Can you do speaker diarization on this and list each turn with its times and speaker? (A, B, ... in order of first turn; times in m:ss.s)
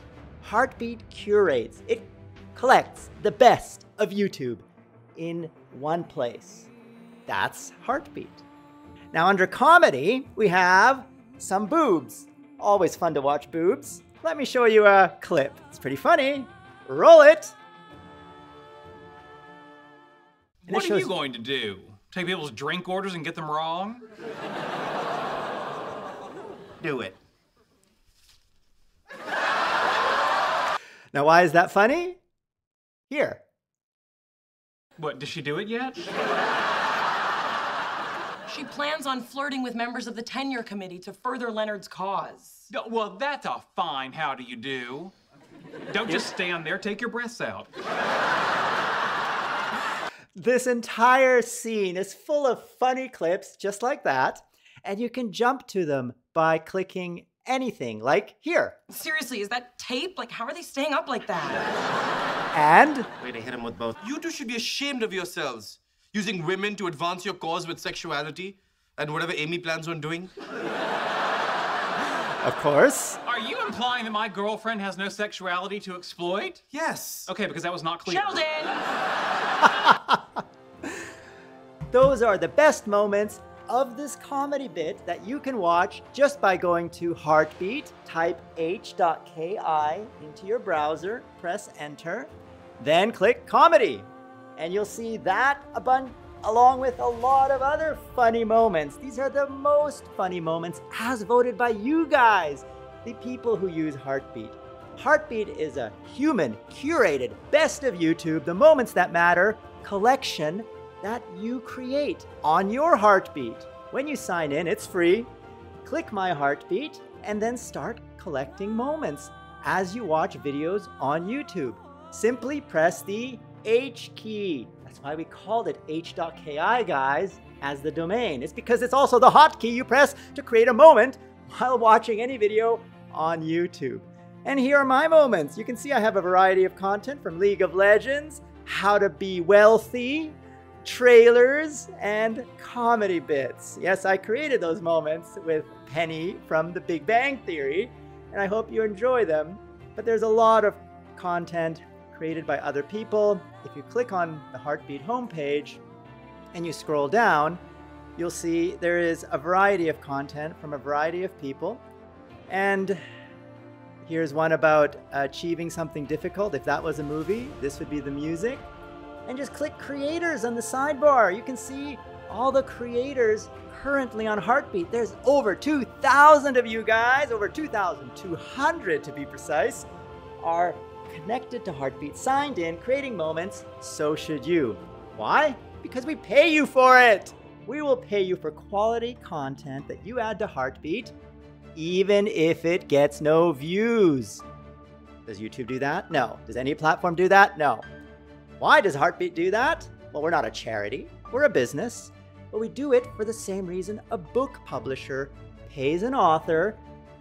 0:00.4-0:04.6 A
0:05.2-0:06.7 A
0:07.3-0:08.4 A
0:09.1-0:17.5 A
0:20.6-0:24.0 B
0:20.7-0:21.1 A
0:31.1-0:32.2 A
0:33.1-0:33.4 A
0:35.0-0:36.1 B
0:38.5-0:42.6 C
0:42.7-0:45.1 B
0:45.9-0:47.7 B
0:50.4-0:58.8 A
0:58.9-1:01.7 C
1:02.5-1:03.1 A
1:03.2-1:10.3 D
1:12.4-1:13.2 A
1:13.3-1:18.7 B
1:18.1-1:18.7 C
1:21.9-1:55.3 A
1:55.8-2:35.8 A
2:36.5-2:37.6 A
2:38.2-2:41.8 A
2:42.5-2:43.0 A
2:44.0-2:48.7 A
2:49.2-2:59.9 A
3:00.4-3:11.1 A
3:11.7-3:14.4 A
3:15.2-3:17.8 A
3:18.6-3:26.8 A